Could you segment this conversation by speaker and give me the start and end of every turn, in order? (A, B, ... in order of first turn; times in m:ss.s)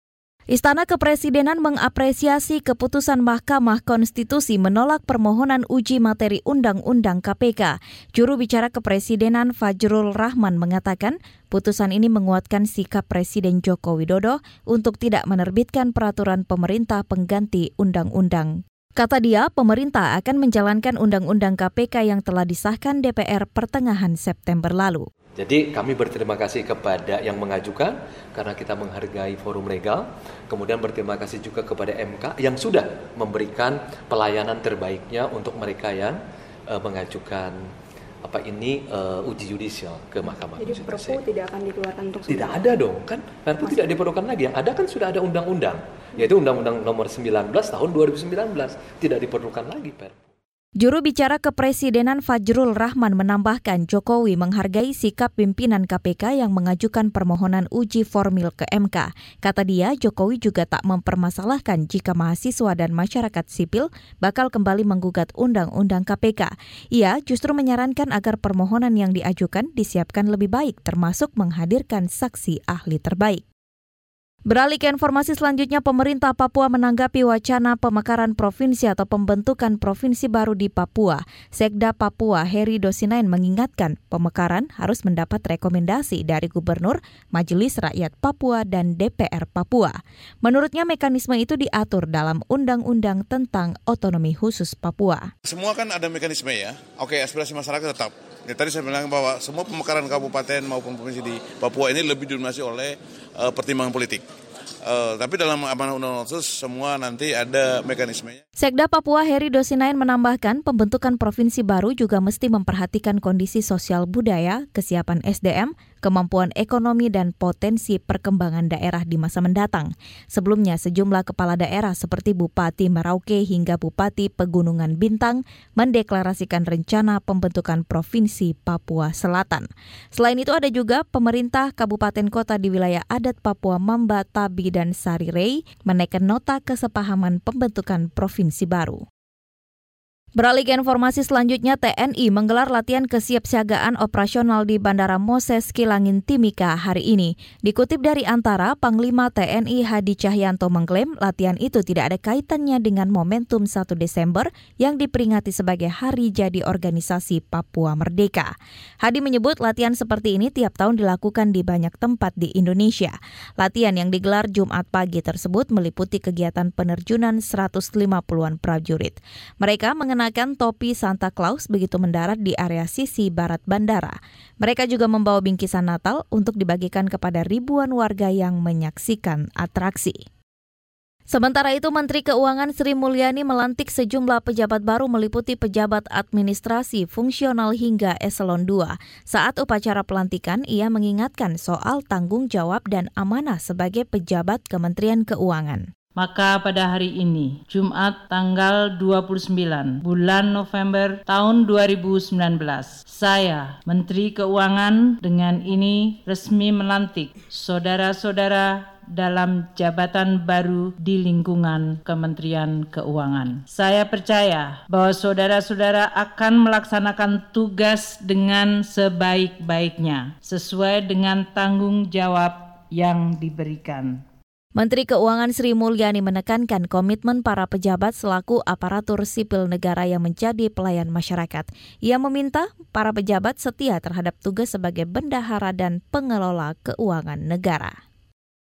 0:00.5-0:25.0 A
0:25.4-0:36.2 B
0:36.7-0:37.6 B
0:38.2-0:41.2 B
0:40.6-0:42.8 C
0:42.3-0:50.1 B
0:43.6-0:43.9 C
0:50.8-1:13.4 A
1:14.5-1:35.3 A
1:35.4-1:44.2 D
1:44.8-1:48.4 D
1:48.6-2:19.0 A
2:20.4-3:00.2 A
3:01.3-3:15.8 A
3:16.2-3:44.2 E
3:44.8-3:57.9 A